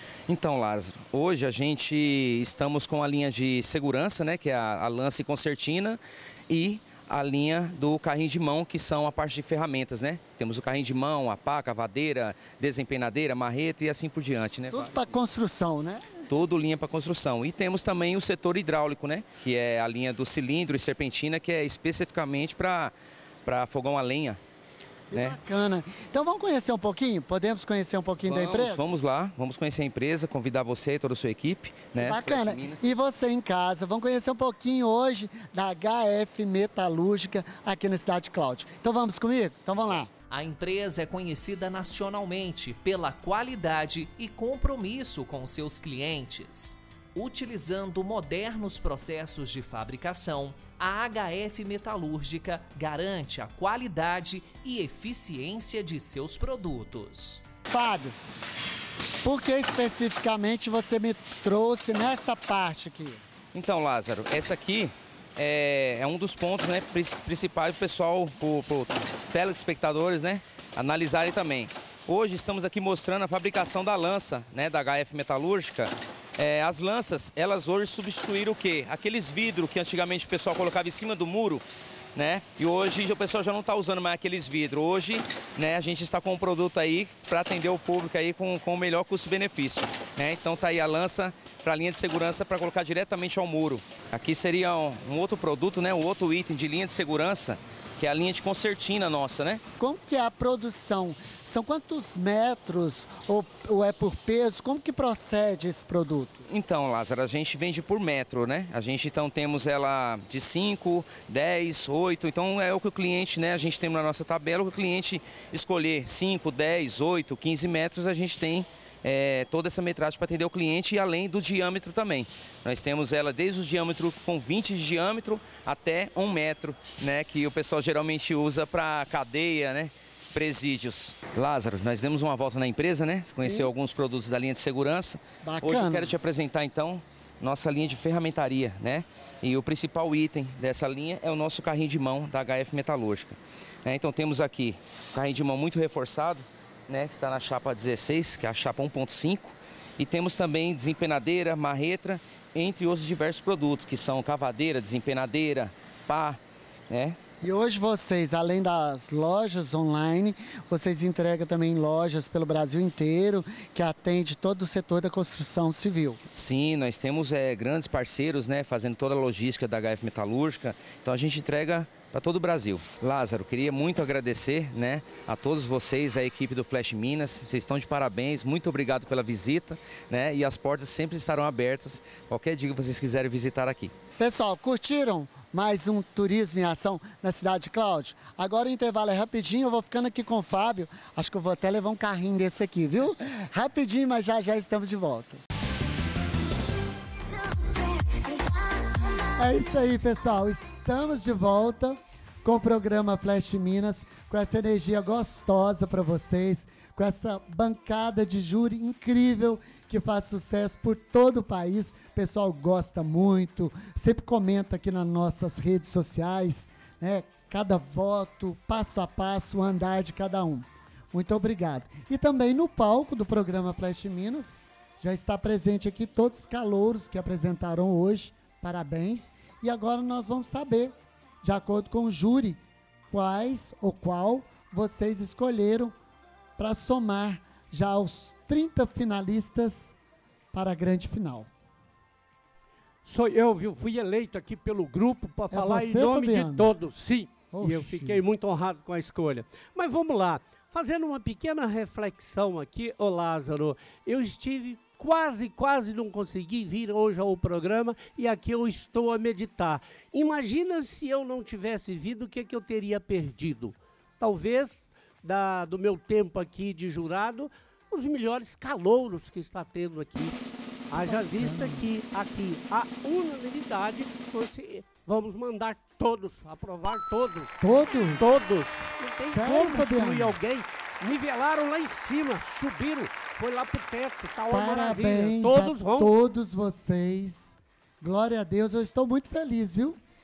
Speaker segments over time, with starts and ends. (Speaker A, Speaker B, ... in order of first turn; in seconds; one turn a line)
Speaker A: 0.3-15.1
Speaker B: 14.7-16.2
Speaker A: 16.3-22.9
Speaker A: 23.4-24.4
Speaker B: 25.1-28.8
Speaker A: 28.2-32.9
Speaker B: 32.0-40.1
Speaker C: 40.3-57.4
Speaker B: 57.7-58.1
Speaker B: 59.2-63.2
Speaker A: 63.5-81.6
Speaker A: 82.2-99.6
Speaker B: 99.8-106.5
Speaker A: 106.5-156.4
Speaker D: 133.4-133.7
Speaker B: 135.4-136.1
Speaker A: 156.9-157.2
Speaker B: 157.4-166.2
Speaker A: 166.3-183.9
Speaker B: 184.2-195.4
Speaker B: 199.4-236.0
Speaker B: 236.6-239.9
Speaker B: 240.5-241.5
Speaker D: 243.1-270.4
Speaker B: 245.5-246.7
Speaker B: 247.5-248.2
Speaker D: 270.9-277.6
Speaker B: 271.0-271.9
Speaker B: 277.6-278.3
Speaker D: 278.1-286.1
Speaker B: 279.3-280.4
Speaker B: 284.5-290.0